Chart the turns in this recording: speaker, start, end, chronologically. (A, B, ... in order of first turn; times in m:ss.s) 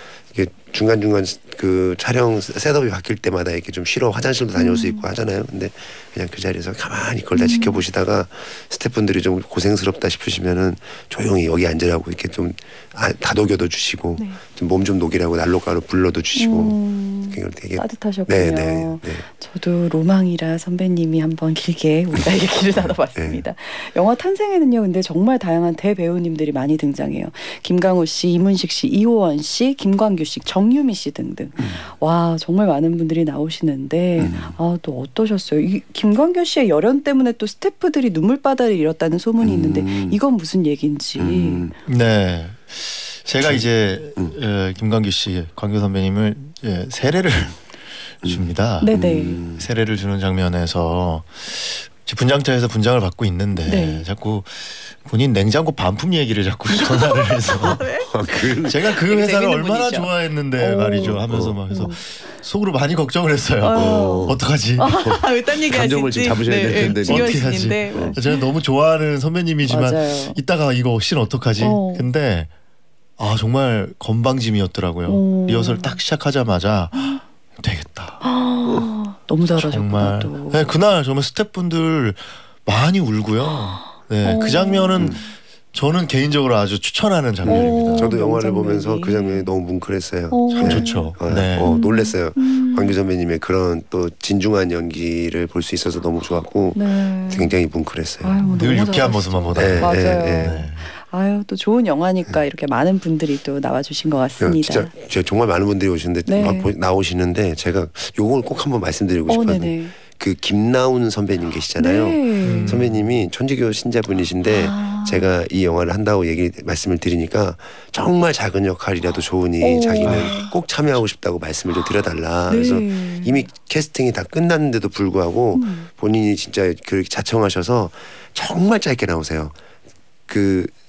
0:00.3-0:19.2 A
0:04.6-0:05.0 B
0:07.4-0:07.8 B
0:16.3-0:41.7 B
0:22.8-0:23.4 A
0:34.2-0:34.5 A
0:39.4-0:40.2 A
0:41.2-0:41.7 A
0:41.8-0:57.8 C
0:43.4-0:43.6 A
0:48.2-0:49.7 A
0:48.8-0:49.4 B
0:53.7-0:54.0 B
0:56.7-1:02.0 B
0:58.0-0:58.8 A
0:58.7-1:05.0 C
1:01.0-1:01.6 A
1:03.6-1:08.4 B
1:03.7-1:08.2 A
1:06.8-1:12.5 C
1:09.6-1:10.4 B
1:11.6-1:12.1 B
1:13.2-1:18.2 C
1:15.1-1:16.0 B
1:16.9-1:17.2 B
1:18.2-1:20.6 B
1:19.5-1:28.1 C
1:24.2-1:25.2 B
1:27.4-1:29.5 B
1:27.4-1:38.4 A
1:30.3-1:33.0 B
1:30.5-1:31.8 C
1:36.7-1:37.5 B
1:38.2-1:44.9 B
1:38.4-1:40.9 C
1:39.5-1:40.6 A
1:44.4-2:09.5 A
1:46.2-1:46.7 B
1:49.3-1:49.9 B
1:51.8-1:52.8 B
1:52.4-1:53.2 C
1:54.4-1:55.3 B
1:59.6-2:00.5 B
2:02.5-2:03.5 B
2:05.5-2:05.9 B
2:10.3-2:10.7 A